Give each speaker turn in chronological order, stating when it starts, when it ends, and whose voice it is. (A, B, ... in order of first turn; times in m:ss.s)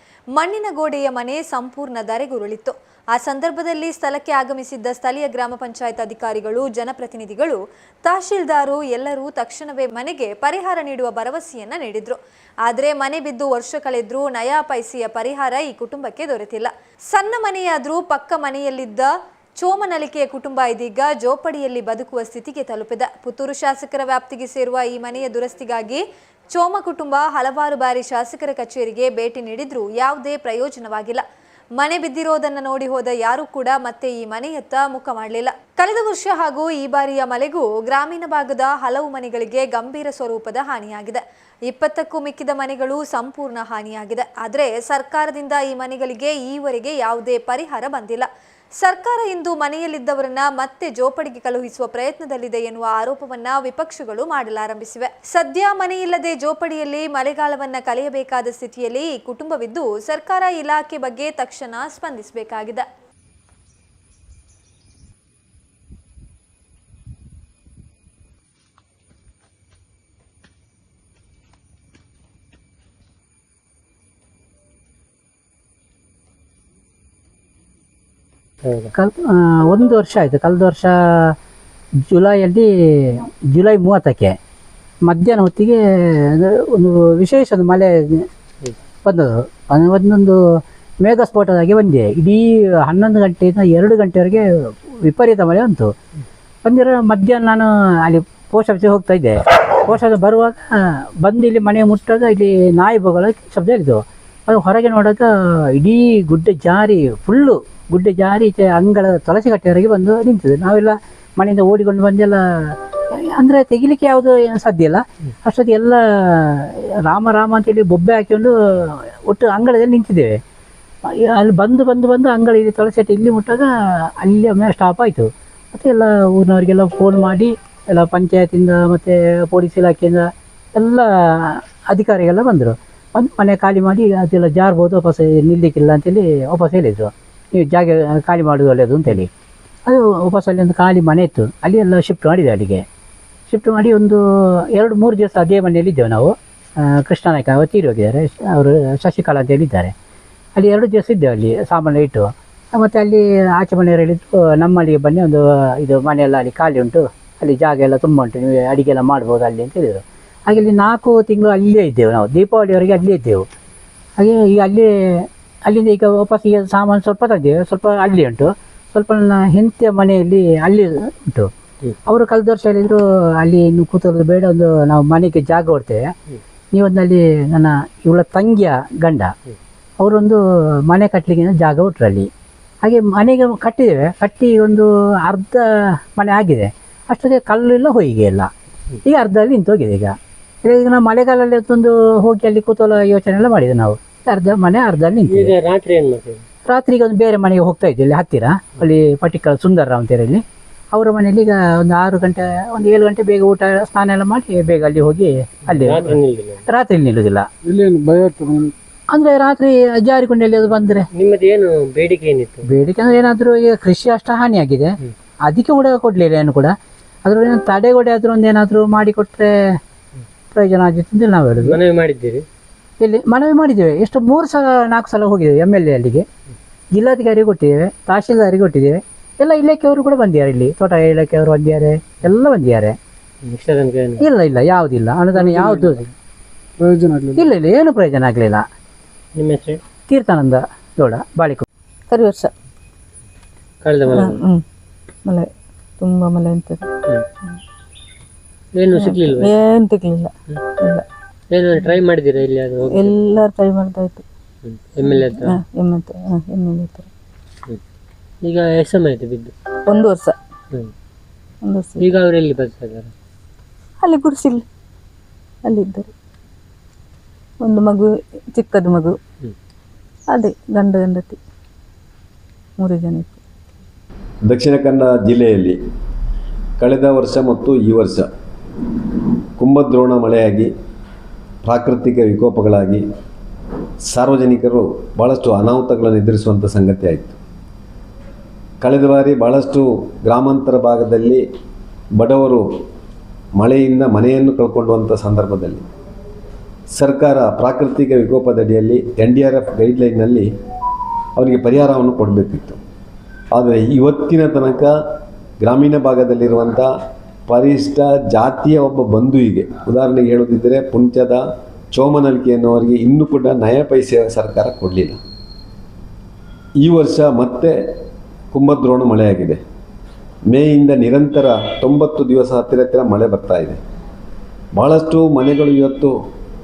0:00.3-0:31.2 A
0:31.8-0:48.3 A
0:48.8-1:02.8 A
1:18.6-1:18.9 B
1:18.9-1:21.3 C
1:22.1-1:24.4 C
1:25.0-1:28.3 C
1:29.0-1:35.9 C
1:36.6-2:00.4 C
2:01.0-2:19.3 C
2:19.9-2:22.8 C
2:23.5-2:29.9 C
2:30.6-2:43.5 C
2:44.2-2:51.5 C
2:52.1-2:56.1 C
2:56.7-2:59.3 C
3:00.0-3:02.3 C
3:02.8-3:08.5 C
3:09.0-3:15.5 C
3:15.3-3:16.4 B
3:16.7-3:26.2 C
3:25.7-3:26.6 B
3:26.7-3:27.5 C
3:27.6-3:28.7 D
3:29.1-3:31.1 C
3:31.1-3:32.7 B
3:32.7-3:36.7 C
3:37.2-3:39.5 C
3:40.5-3:41.8 C
3:41.6-3:42.5 B
3:43.0-3:46.2 C
3:46.9-3:53.0 C
3:53.4-3:54.2 B
3:54.2-3:56.1 C
3:55.4-3:56.0 D
3:56.8-3:57.5 D
3:57.4-3:58.7 C
3:59.4-3:59.8 B
4:00.1-4:01.7 C
4:02.1-4:02.5 E
4:03.8-4:04.4 B
4:04.1-4:04.6 E
4:06.0-4:06.9 E
4:08.8-4:09.5 B
4:09.0-4:11.0 E
4:11.5-4:13.1 B
4:12.9-4:14.2 E
4:14.6-4:15.6 B
4:15.4-4:17.0 E
4:18.4-4:19.6 B
4:19.9-4:20.3 E
4:21.7-4:22.0 E
4:22.0-4:23.1 B
4:24.0-4:24.6 E
4:25.7-4:26.1 E
4:27.6-4:28.0 E
4:28.6-4:29.1 E
4:30.3-4:31.4 E
4:32.8-4:33.4 E
4:34.4-4:35.8 F
4:36.8-4:38.3 F
4:39.6-4:40.7 F
4:41.6-4:43.0 F
4:44.1-4:47.4 F
4:48.8-4:51.4 F
4:52.2-4:52.7 F
4:53.6-4:55.9 F
4:56.9-5:00.5 F
5:01.4-5:02.8 F
5:03.5-5:04.9 F
5:05.6-5:06.9 F
5:07.5-5:15.2 F
5:16.8-5:17.8 F
5:18.5-5:19.6 F
5:20.5-5:23.8 F
5:24.8-5:26.1 F